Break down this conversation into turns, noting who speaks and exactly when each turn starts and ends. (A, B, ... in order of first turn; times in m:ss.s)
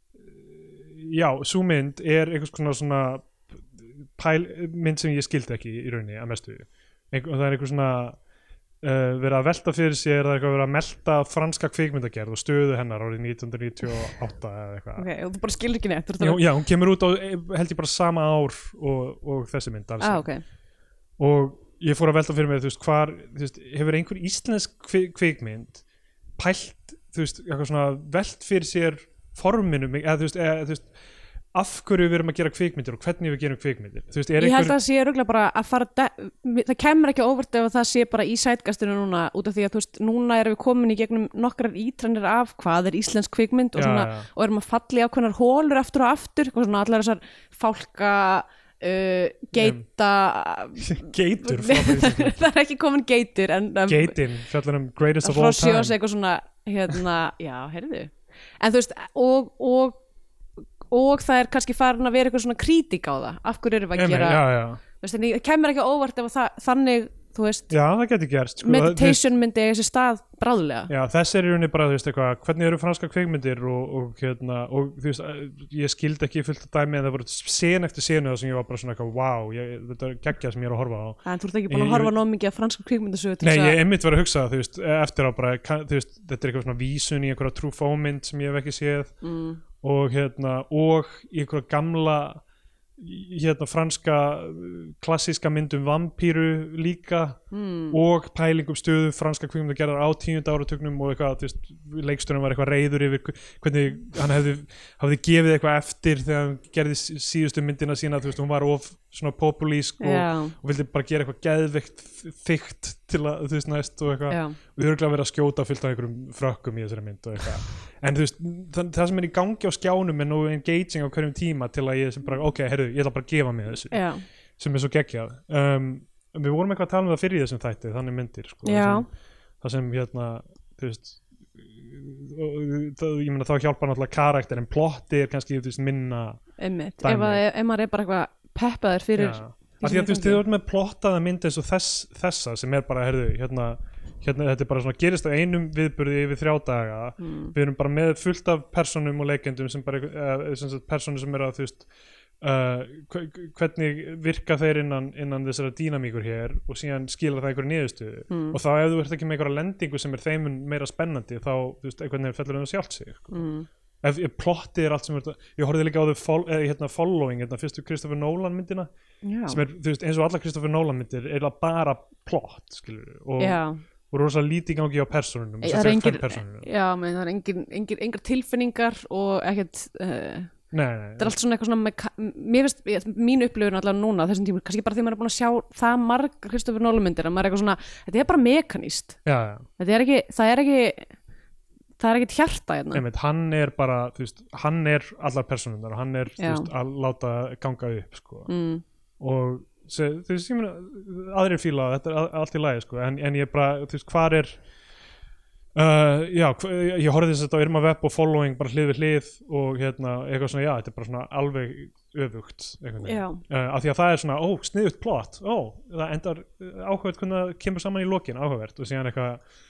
0:00.3-0:08.2 A
0:08.8-0:15.0 A
0:15.0-0:16.4 B
0:16.2-0:20.2 A
0:20.0-0:20.4 B
0:21.2-0:25.8 A
0:26.4-0:30.9 A
0:31.5-0:34.8 A
0:34.4-0:54.2 B
0:43.7-0:44.3 A
0:49.6-0:49.8 A
0:50.8-0:52.4 A
0:53.9-0:56.0 A
0:55.2-1:00.0 B
1:00.9-1:07.7 B
1:03.9-1:04.8 A
1:07.7-1:09.2 A
1:08.6-1:10.9 B
1:10.9-1:22.1 A
1:21.2-1:23.8 B
1:23.4-1:29.2 A
1:29.2-1:29.6 B
1:29.8-1:32.4 A
1:33.0-2:04.0 A
1:37.5-1:38.0 B
1:50.0-1:50.5 B
1:54.3-1:54.6 B
2:03.9-2:04.2 B
2:04.6-2:09.0 A
2:08.6-2:09.0 B
2:09.6-2:16.4 A
2:16.6-2:20.4 B
2:17.0-2:17.4 A
2:19.2-2:31.9 A
2:27.2-2:27.5 B
2:32.4-2:43.4 A
2:38.3-2:38.6 B
2:43.3-2:43.7 B
2:44.0-2:48.9 A
2:49.2-2:49.6 B
2:49.5-2:56.7 A
2:53.4-2:53.8 B
2:55.6-3:00.5 B
3:00.7-3:01.3 A
3:01.2-3:09.2 B
3:09.2-3:09.7 A
3:09.8-3:11.1 B
3:12.0-3:13.0 B
3:12.9-3:18.5 A
3:16.4-3:16.7 B
3:18.5-3:18.8 B
3:19.2-3:24.6 A
3:25.7-3:39.4 A
3:33.0-3:33.4 B